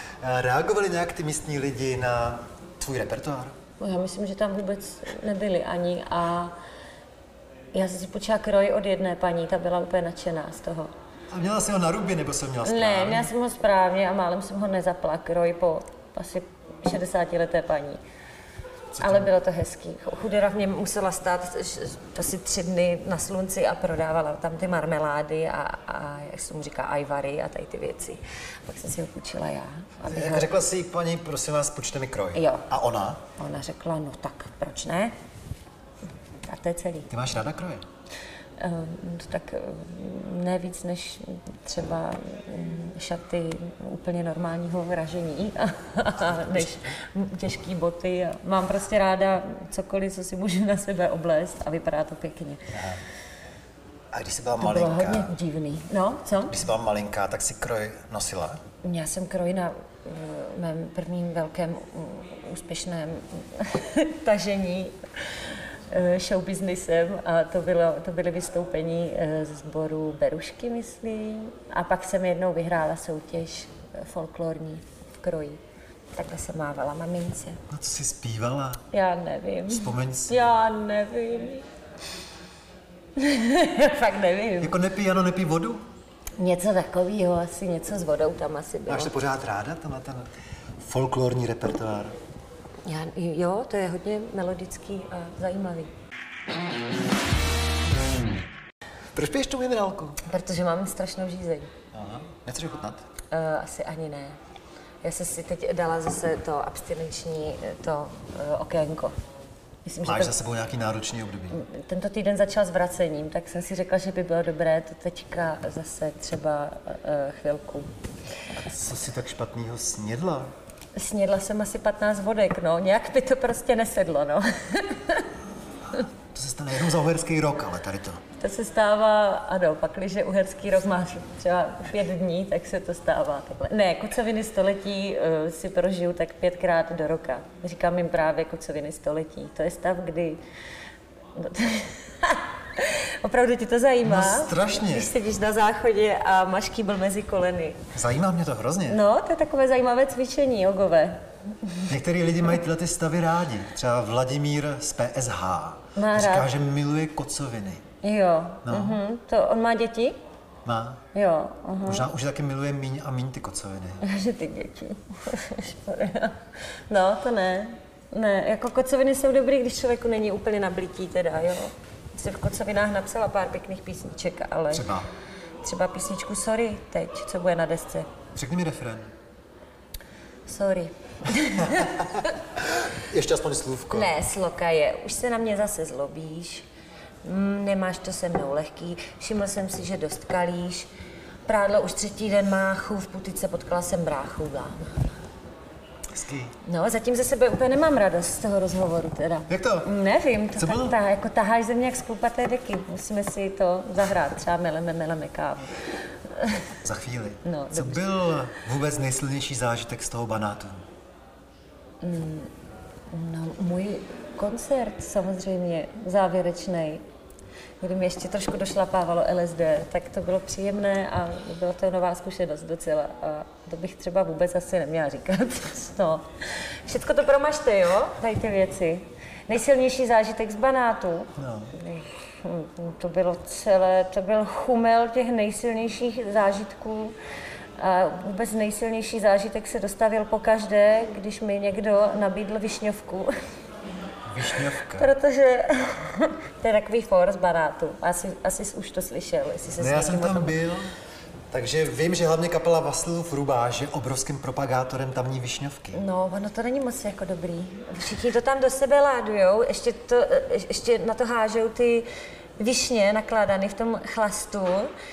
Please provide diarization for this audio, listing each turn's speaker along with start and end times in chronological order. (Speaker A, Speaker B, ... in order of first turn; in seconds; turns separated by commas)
Speaker A: 0.2-3.5, Speaker B: 3.8-6.5, Speaker B: 7.7-10.9, Speaker A: 11.3-13.3, Speaker B: 12.6-18.0, Speaker B: 18.9-30.5, Speaker A: 18.9-19.3, Speaker A: 30.1-33.2, Speaker B: 32.3-32.6, Speaker B: 33.3-35.1, Speaker B: 36.5-37.1, Speaker A: 37.1-37.8, Speaker B: 38.6-52.7, Speaker A: 46.3-46.7, Speaker A: 52.7-53.0, Speaker A: 54.1-55.3, Speaker B: 54.6-56.5, Speaker A: 56.5-58.6, Speaker B: 58.8-65.0, Speaker B: 65.9-75.6, Speaker B: 76.2-77.6, Speaker A: 77.7-78.8, Speaker B: 78.9-81.7, Speaker A: 79.7-80.5, Speaker B: 83.2-84.7, Speaker A: 84.6-85.8, Speaker B: 86.4-89.1, Speaker A: 88.9-92.2, Speaker B: 92.8-95.9, Speaker A: 99.1-100.2, Speaker B: 100.2-101.7, Speaker A: 101.9-103.0, Speaker B: 103.3-104.4, Speaker B: 105.0-109.2, Speaker B: 109.8-110.3, Speaker A: 110.0-111.6, Speaker B: 111.5-117.9, Speaker A: 118.6-120.5, Speaker B: 120.9-125.3, Speaker A: 125.9-128.2, Speaker B: 128.4-140.4, Speaker B: 141.3-147.9, Speaker A: 144.0-145.1, Speaker A: 147.9-149.0, Speaker B: 148.9-151.9, Speaker A: 151.9-157.8, Speaker B: 155.9-156.5, Speaker B: 158.0-160.2, Speaker A: 158.6-159.0, Speaker A: 160.6-161.0, Speaker B: 161.1-162.1, Speaker A: 161.8-164.0, Speaker B: 164.0-174.9, Speaker A: 174.7-175.1, Speaker B: 175.6-178.1, Speaker A: 178.3-179.1, Speaker B: 180.5-182.3, Speaker A: 181.6-182.2, Speaker A: 182.8-184.1, Speaker B: 183.9-186.7, Speaker B: 187.2-190.9, Speaker B: 191.4-195.1, Speaker A: 196.1-196.5, Speaker B: 196.6-205.8, Speaker A: 199.5-199.9, Speaker A: 200.6-200.9, Speaker B: 206.3-206.7, Speaker A: 206.8-210.8, Speaker B: 207.4-208.0, Speaker B: 212.0-212.5, Speaker B: 213.1-217.0, Speaker B: 217.8-226.3, Speaker B: 226.8-237.2, Speaker A: 231.4-231.7, Speaker B: 237.8-243.3, Speaker A: 244.2-245.1, Speaker B: 244.9-250.6, Speaker A: 249.8-250.9, Speaker A: 251.5-256.0, Speaker B: 255.9-262.1, Speaker B: 262.6-264.9